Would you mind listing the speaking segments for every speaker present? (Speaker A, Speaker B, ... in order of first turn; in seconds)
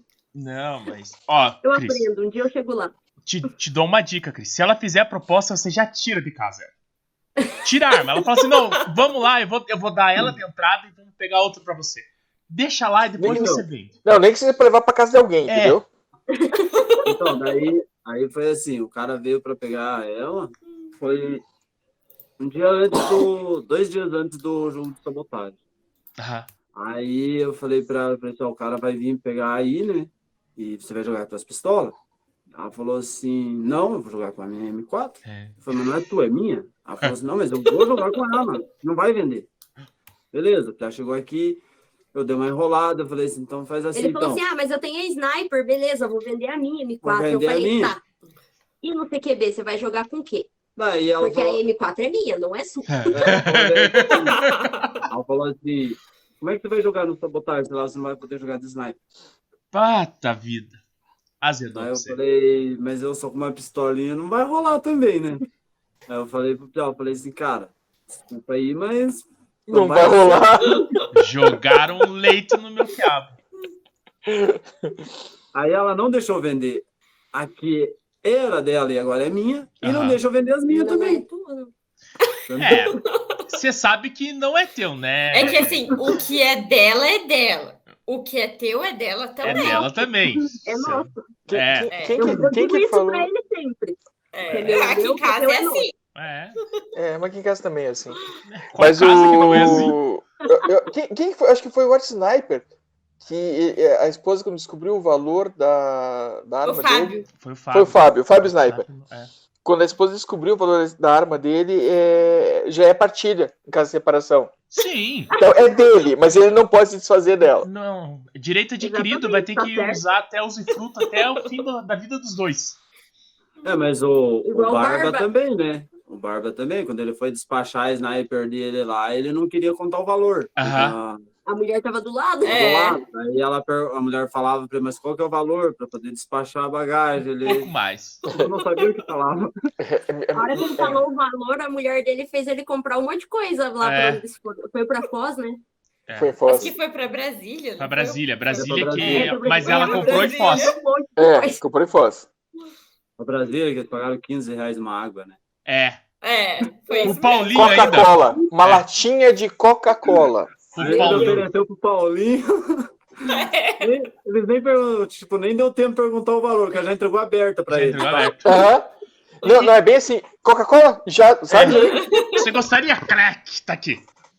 Speaker A: 0.3-2.0, 3.3-6.7, 7.6-13.9, 15.5-15.8, 26.2-26.5, 35.3-35.6, 52.9-55.0, 59.7-60.8, 61.4-62.2, 71.1-73.4, 79.8-80.2, 82.6-83.0, 83.5-85.8, 89.4-91.9, 96.2-96.6, 98.5-100.0, 107.3-109.3, 114.7-115.3, 117.6-122.8, 130.6-131.0, 137.4-138.2, 143.8-144.2, 146.1-146.3, 147.8-150.7, 155.7-156.0, 157.0-158.8, 160.7-161.5, 167.7-168.5, 169.5-169.7, 171.5-174.1
Speaker B: 1.6-2.9, 16.3-16.8, 43.9-48.0, 48.8-50.5, 51.2-53.4, 80.7-81.7, 89.5-91.1, 92.2-95.9, 118.8-120.0, 124.5-125.3, 131.5-132.6, 140.3-145.6, 149.1-151.6, 160.8-161.4
Speaker C: 13.2-15.9, 69.7-70.9, 74.3-75.1, 91.5-93.3, 97.0-98.2, 98.8-102.7, 103.2-108.8, 109.7-114.5, 115.4-117.7, 139.8-141.0, 146.2-146.7, 151.2-152.3, 157.4-160.5, 168.4-168.9, 169.4-172.0
Speaker D: 16.8-17.0, 54.3-55.0, 82.2-83.5, 85.3-89.9, 91.9-92.4, 94.3-95.9, 106.6-107.3, 132.4-133.0, 138.2-138.9, 146.5-150.8, 156.2-157.5, 163.3-163.9, 171.8-172.4
Speaker E: 17.1-21.4, 22.4-25.6, 26.8-31.9, 32.5-39.5, 40.3-41.6, 42.1-44.5, 47.0-48.0, 50.8-51.6, 53.1-54.4, 55.1-59.0, 61.7-65.5, 66.1-67.7, 68.3-70.8, 75.5-81.2, 82.5-83.0, 123.6-131.2, 132.4-137.7, 138.3-139.5, 148.6-149.4, 153.2-155.4, 160.8-162.9, 163.8-168.4